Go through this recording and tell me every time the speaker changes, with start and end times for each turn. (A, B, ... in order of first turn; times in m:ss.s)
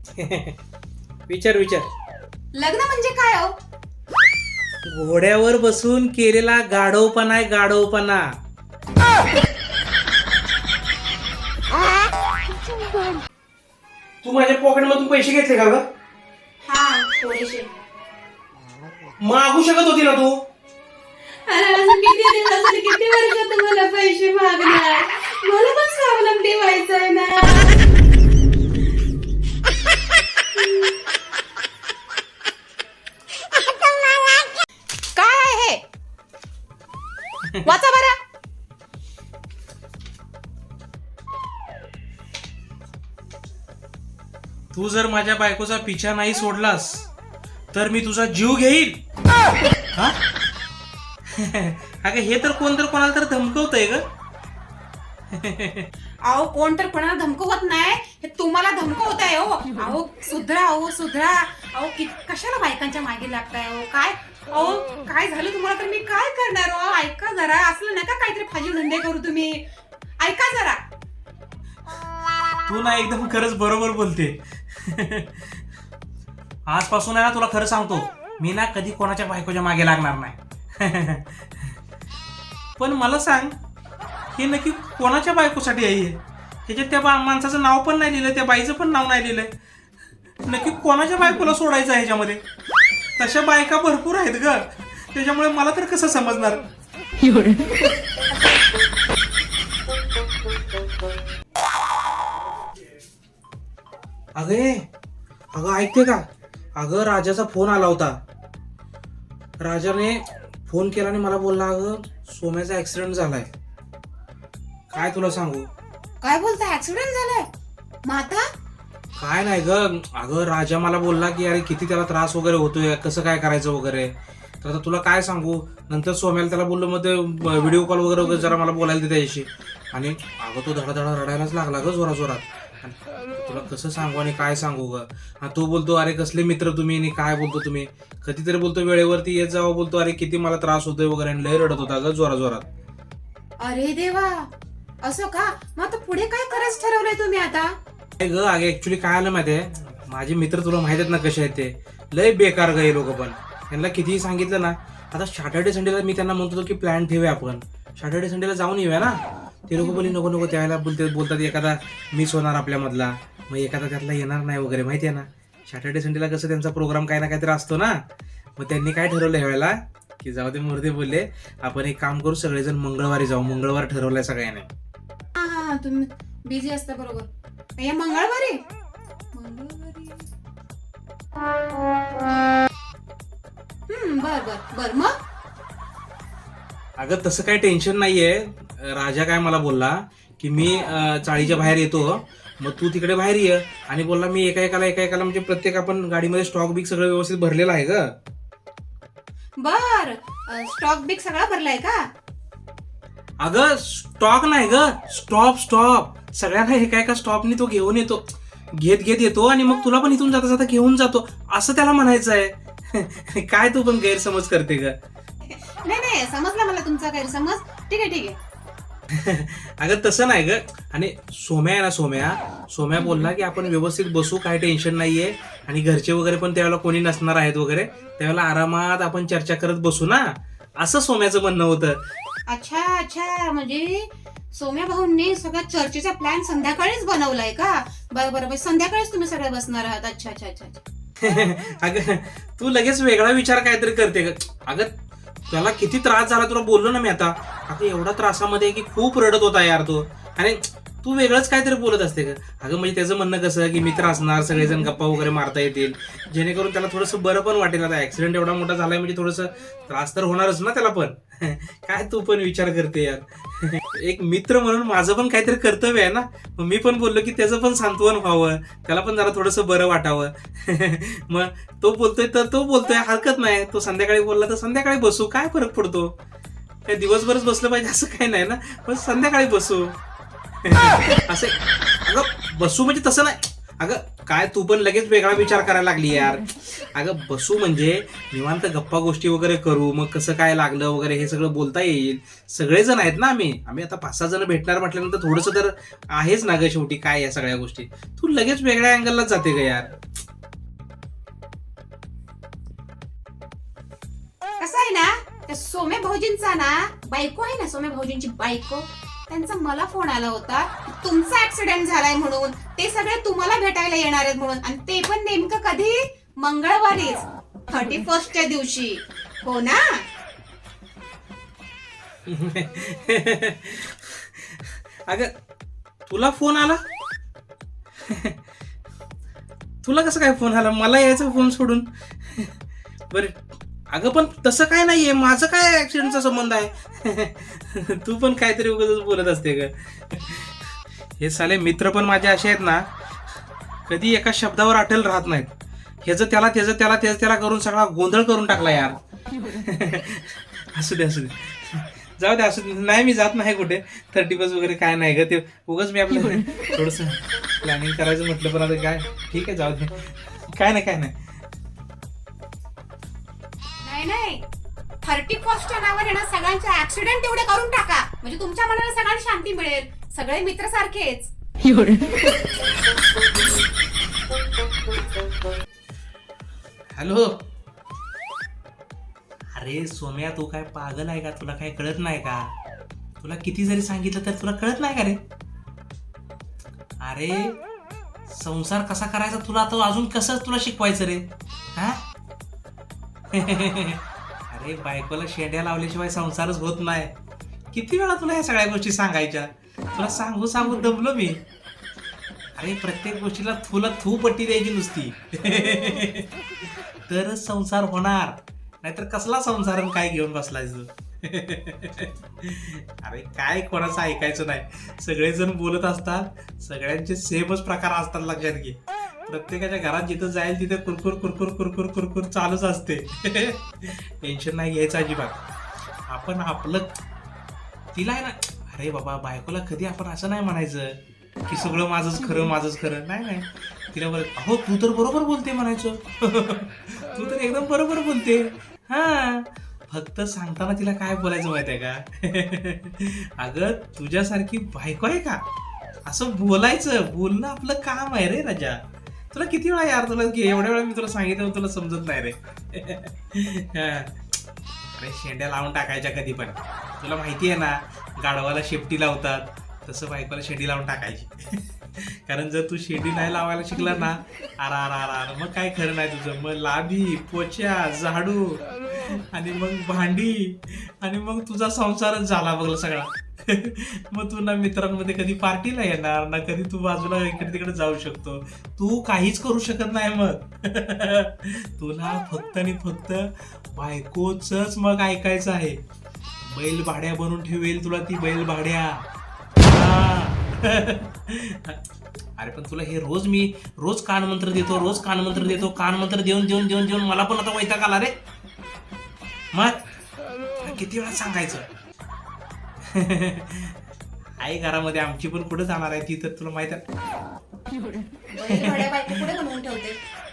0:00.2-0:00.6 A
0:01.3-0:01.9 A
0:02.6-0:03.5 B
0:04.8-0:08.3 A
0:14.2-0:15.8 A
0:16.6-0:17.7 B
0:19.2-0:20.4 A
0:21.5-0:27.8 B
0:30.6-0:30.9 B
0:35.2-0:35.8 B
0:37.6-0:38.2 B
0:44.7-0:47.1 A
0:47.7-0:49.0 A
0:51.3-0:54.0 A
0:55.3-0:55.9 A
0:56.2-1:09.6 B
1:10.2-1:10.8 B
1:12.7-1:15.6 A
1:16.7-1:21.8 A
1:22.8-1:23.6 A
1:24.3-1:29.5 A
1:30.5-1:32.4 A
1:33.2-1:36.6 A
1:44.4-1:44.9 A
1:45.5-1:46.3 A
1:46.8-1:48.2 A
1:49.6-1:53.5 A
1:54.9-1:55.7 A
1:56.2-1:57.5 B
1:58.0-1:58.4 B
1:59.2-2:04.1 A
2:04.6-2:22.6 A
2:23.6-2:24.5 B
2:25.0-2:27.8 B
2:28.2-2:48.0 A
2:48.6-2:54.7 A
2:55.4-2:58.6 B
2:59.3-3:00.3 B
3:03.9-3:05.2 B
3:07.0-3:18.1 A
3:19.6-3:22.1 B
3:23.4-3:35.0 A
3:35.4-3:38.4 B
3:39.1-3:52.0 A
3:52.5-4:00.8 B
4:01.2-4:04.9 A
4:05.5-4:36.1 A
4:36.9-4:40.0 A
4:40.6-4:59.9 A
5:04.6-5:20.0 B
5:22.3-5:25.3 A
5:26.1-5:26.8 A
5:28.0-5:28.4 A
5:29.8-5:32.6 A
5:33.1-5:42.9 A
5:43.9-5:45.5 A
5:46.0-6:01.3 A
6:03.8-6:04.4 B
6:05.0-6:11.3 B
6:17.0-6:17.4 A
6:19.6-6:22.5 A
6:23.2-6:25.2 A
6:27.0-6:27.6 A
6:28.3-6:32.0 A
6:33.3-6:37.2 A
6:37.7-6:41.4 A
6:42.6-6:46.3 A
6:47.1-7:05.4 A
7:06.1-7:07.0 A
7:07.9-7:25.4 A
7:26.1-7:28.8 A
7:29.3-7:34.2 A
7:35.0-8:05.8 A
8:06.4-8:09.1 A
8:09.6-8:11.8 A
8:12.4-8:18.2 A
8:19.5-8:19.8 A
8:20.6-8:21.7 A
8:22.9-8:23.8 A
8:24.4-8:26.8 A
8:28.3-8:30.0 B
8:28.5-8:28.8 A